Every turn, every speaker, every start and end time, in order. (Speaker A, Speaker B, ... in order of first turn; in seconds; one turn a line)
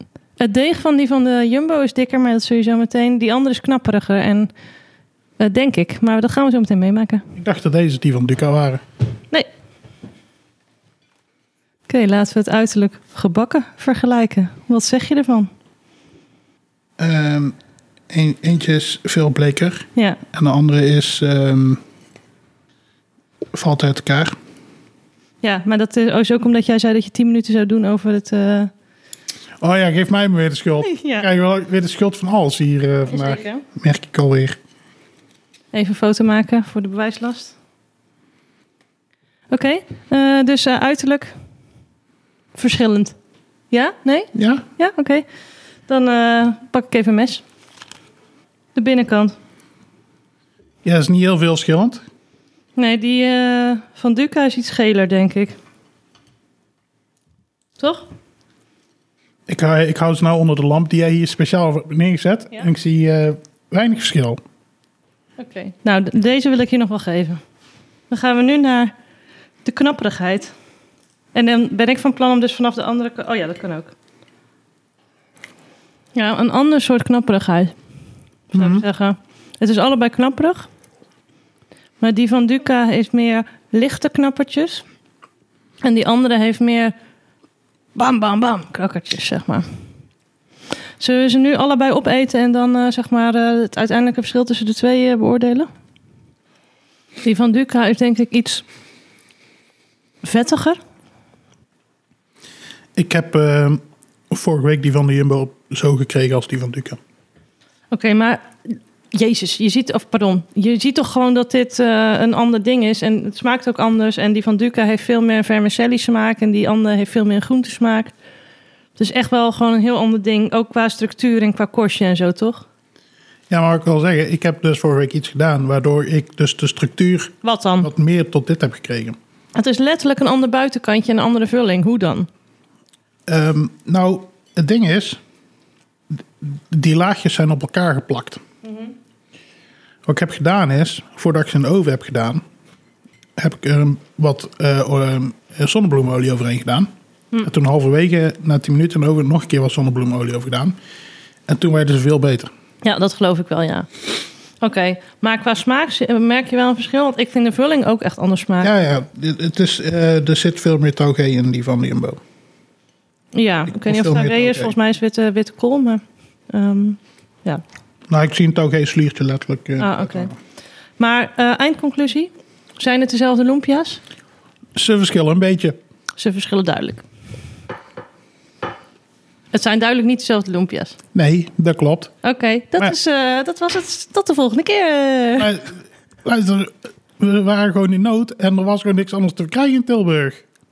Speaker A: 0.4-4.5
Speaker A: 5.4-7.2
Speaker B: 7.4-8.8
Speaker A: 11.9-15.5
Speaker B: 17.0-17.5
Speaker B: 18.1-21.8
Speaker B: 23.5-24.3
Speaker A: 25.4-28.7
Speaker B: 29.6-34.5
Speaker A: 30.8-31.3
Speaker A: 33.1-33.6
Speaker A: 35.7-37.5
Speaker A: 39.5-41.3
Speaker A: 42.5-43.1
Speaker A: 43.7-45.2
Speaker B: 44.3-44.6
Speaker A: 45.9-47.4
Speaker A: 48.7-49.3
Speaker B: 50.8-52.0
Speaker A: 52.8-55.5
Speaker A: 57.8-58.0
Speaker B: 59.5-64.4
Speaker A: 65.4-67.4
Speaker A: 68.1-68.9
Speaker A: 69.6-70.5
Speaker A: 71.3-73.9
Speaker A: 76.1-77.7
Speaker A: 78.5-80.7
Speaker B: 78.5-78.8
Speaker A: 82.0-84.8
Speaker A: 85.8-86.9
Speaker A: 88.0-89.6
Speaker A: 91.0-95.7
Speaker A: 97.2-98.6
Speaker A: 100.2-100.8
Speaker B: 103.0-107.0
Speaker A: 107.9-118.1
Speaker A: 119.0-122.6
Speaker B: 123.5-129.2
Speaker A: 127.4-127.9
Speaker A: 129.5-132.3
Speaker B: 133.3-135.2
Speaker B: 136.4-138.4
Speaker B: 140.1-142.4
Speaker B: 143.4-146.9
Speaker B: 147.4-150.7
Speaker B: 151.5-152.5
Speaker A: 152.8-154.1
Speaker A: 154.6-158.7
Speaker B: 158.6-162.2
Speaker A: 163.3-167.6
Speaker B: 163.7-164.7
Speaker B: 168.1-170.3
Speaker A: 169.8-170.3
Speaker A: 171.0-174.0
Speaker B: 174.7-175.8
Speaker A: 176.2-177.0
Speaker A: 179.5-180.9
Speaker B: 181.1-182.1
Speaker A: 182.2-185.5
Speaker B: 185.4-190.4